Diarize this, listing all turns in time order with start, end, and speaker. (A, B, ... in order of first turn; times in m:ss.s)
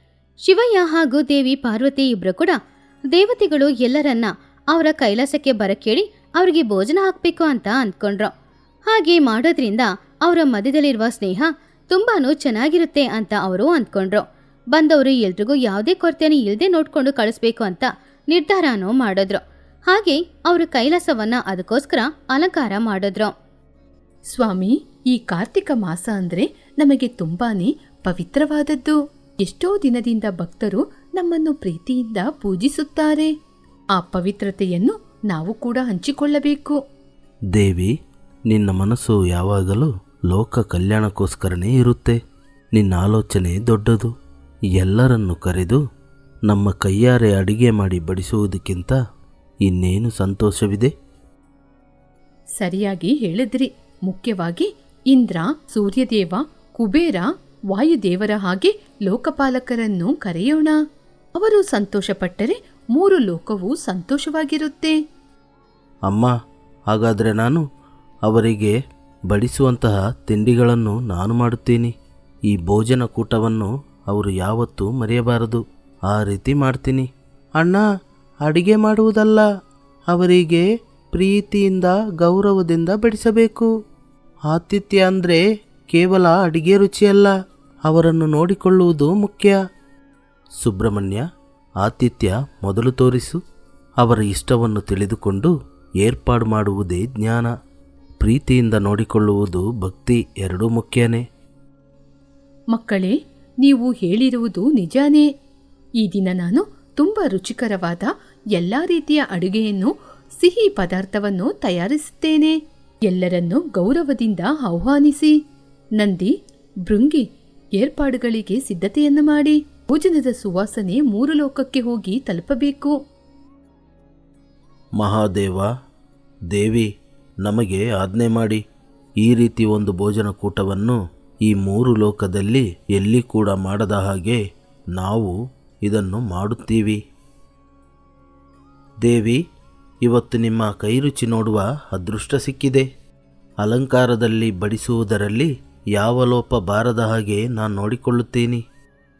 0:00.4-0:02.6 A
0:03.1-0:08.3 A
0:08.9-0:23.3 A
0:24.3-0:33.3 B
0:34.0-0:36.8 B
0:37.5-0:37.9 C
0:38.5-0:42.2 C
0:42.8-0:44.1 C
0:44.8-0:45.8 C
0:46.5-0:49.0 C
0:49.6-0:50.9 C
0:52.6-1:00.7 B
1:01.4-1:04.9 B
1:06.9-1:07.6 C
1:08.3-1:08.7 C
1:09.3-1:11.9 C
1:12.5-1:17.1 C
1:18.4-1:19.4 C
1:20.1-1:23.7 C
1:24.5-1:27.3 C
1:27.9-1:29.6 C
1:30.6-1:31.2 C
1:31.8-1:33.4 C
1:34.0-1:37.5 C
1:38.2-1:41.2 C
1:42.7-1:45.2 B
1:46.0-1:52.5 B
1:53.1-1:55.3 B
1:56.0-1:56.3 B
1:56.9-1:57.2 B
1:57.8-2:02.9 B
2:05.0-2:05.7 C
2:06.5-2:06.9 C
2:07.4-2:08.6 C
2:09.2-2:14.4 C
2:14.9-2:15.3 C
2:15.8-2:17.0 C
2:19.0-2:19.4 C
2:20.0-2:22.8 C
2:23.6-2:28.6 C